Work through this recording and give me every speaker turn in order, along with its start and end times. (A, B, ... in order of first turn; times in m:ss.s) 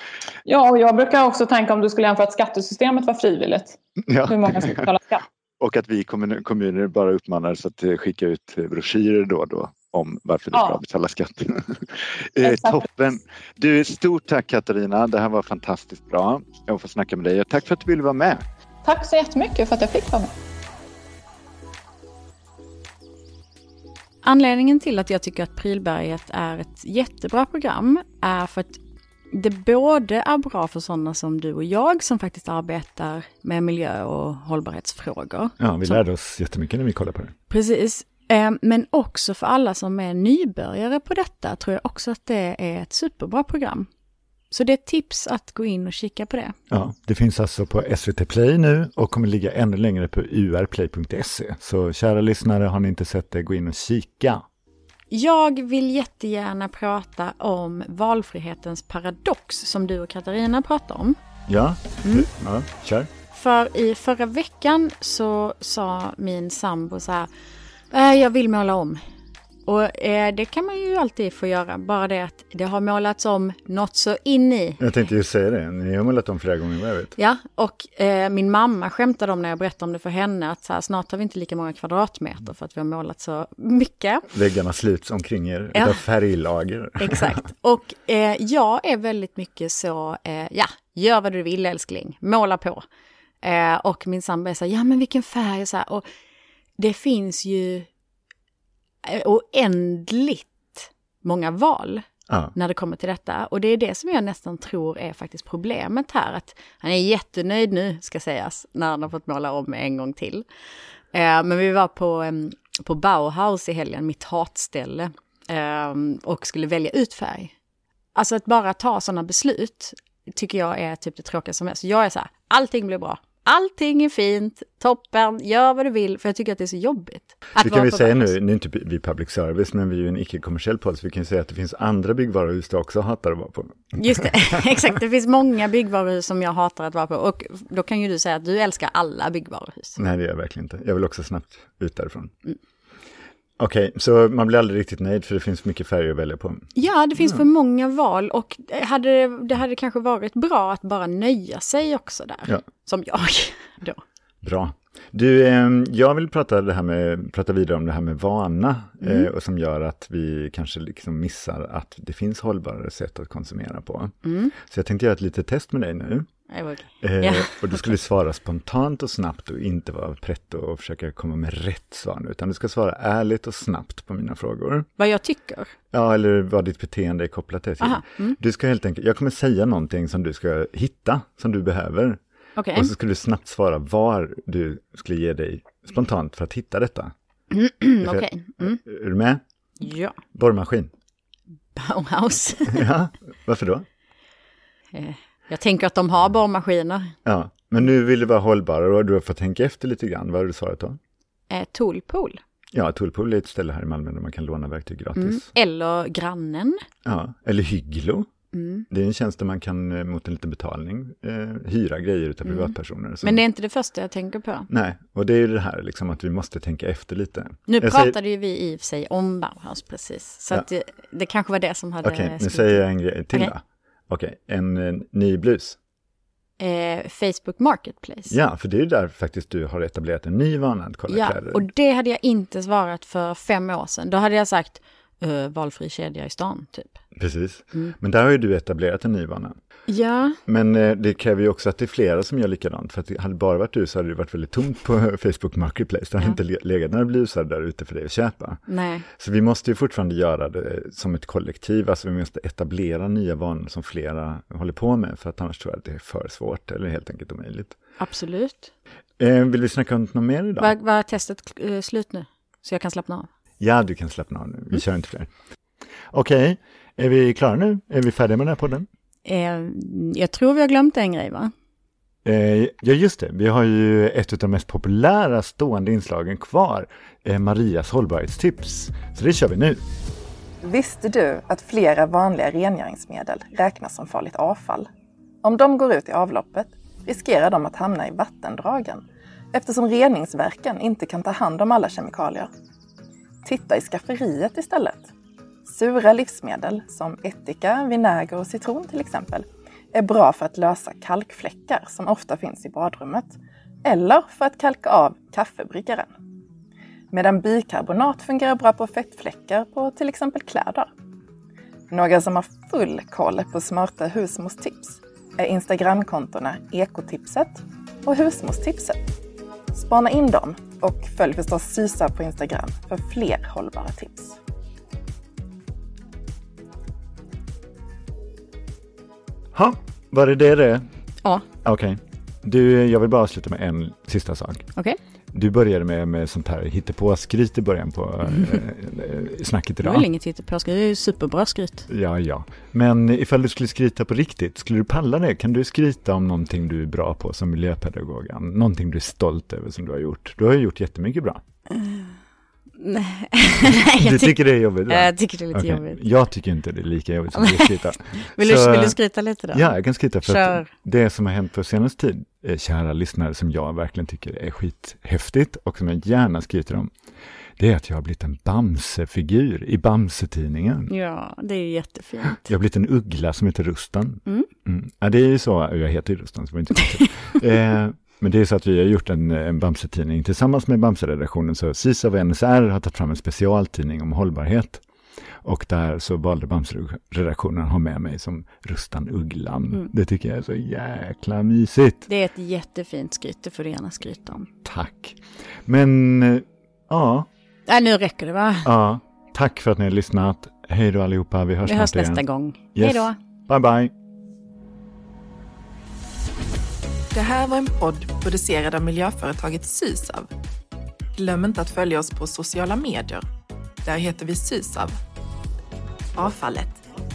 0:00.4-0:05.2 A
0:04.0-0:04.9 B
0:05.6-0:18.4 B
0:10.5-0:10.8 A
0:12.4-0:12.8 A
0:18.8-0:20.3 A
0:24.2-0:28.8 C
0:29.3-0:36.0 C
0:35.6-0:37.3 B
0:37.5-0:43.9 C
0:44.5-0:46.6 C
0:46.7-0:54.4 B
0:55.1-1:01.2 C
1:01.5-1:03.1 B
1:03.3-1:07.3 C
1:07.9-1:09.0 C
1:09.6-1:14.8 C
1:14.8-1:17.1 B
1:17.2-1:24.3 C
1:24.3-1:27.4 B
1:27.0-1:32.8 C
1:33.4-1:36.0 C
1:36.8-1:37.9 C
1:39.0-1:50.4 C
1:42.3-1:42.5 B
1:51.1-1:57.5 C
1:58.1-2:08.3 C
2:07.6-2:14.6 B
2:14.0-2:20.0 C
2:20.0-2:22.3 B
2:23.6-2:27.4 B
2:26.7-2:34.0 C
2:34.4-2:46.3 B
2:44.2-2:44.5 C
2:46.5-2:47.8 C
2:47.0-2:54.9 B
2:55.0-2:55.7 C
2:55.9-3:02.2 B
2:57.8-2:58.4 C
3:02.6-3:02.9 C
3:02.7-3:07.1 B
3:07.5-3:08.8 C
3:08.0-3:09.4 B
3:09.8-3:10.2 C
3:10.3-3:10.9 B
3:11.7-3:12.9 C
3:12.7-3:13.8 B
3:14.9-3:17.1 C
3:17.2-3:21.0 B
3:21.5-3:22.4 C
3:22.7-3:25.4 B
3:25.2-3:26.8 C
3:27.0-3:28.3 B
3:28.5-3:28.8 C
3:28.9-3:33.4 B
3:32.4-3:34.7 C
3:34.7-3:38.1 B
3:37.7-3:43.5 C
3:42.0-3:45.8 B
3:46.6-3:48.3 C
3:48.3-3:51.6 B
3:51.1-3:57.0 C
3:57.2-3:59.5 B
3:59.9-4:00.4 C
4:00.5-4:08.6 B
4:08.7-4:09.0 C
4:09.1-4:17.8 B
4:18.0-4:18.7 C
4:19.2-4:20.7 B
4:20.6-4:23.3 C
4:23.6-4:25.3 B
4:26.1-4:28.9 B
4:29.2-4:31.5 C
4:32.2-4:39.8 B
4:40.6-4:44.9 D
4:45.4-4:52.5 D
4:53.4-4:55.1 D
4:55.6-5:06.1 D
5:07.1-5:10.9 D
5:11.9-5:19.0 D
5:19.7-5:24.4 D
5:29.5-5:30.8 B
5:31.6-5:34.7 B
5:35.3-5:40.1 B
5:39.8-5:41.9 C
5:41.9-5:51.4 B
5:51.7-5:52.1 C
5:52.8-5:56.0 C
5:53.6-5:59.0 B
5:57.4-6:00.7 C
5:59.5-6:06.9 B
6:07.6-6:10.9 B
6:10.9-6:12.4 C
6:12.4-6:24.8 B
6:25.4-6:32.1 B
6:32.1-6:34.5 C
6:34.6-6:37.3 B
6:37.7-6:38.7 C
6:38.6-6:42.2 B
6:41.6-6:43.2 C
6:42.7-6:43.9 B
6:47.1-6:50.3 D
6:51.1-6:53.2 D
6:53.8-6:55.0 D
6:56.1-6:56.8 D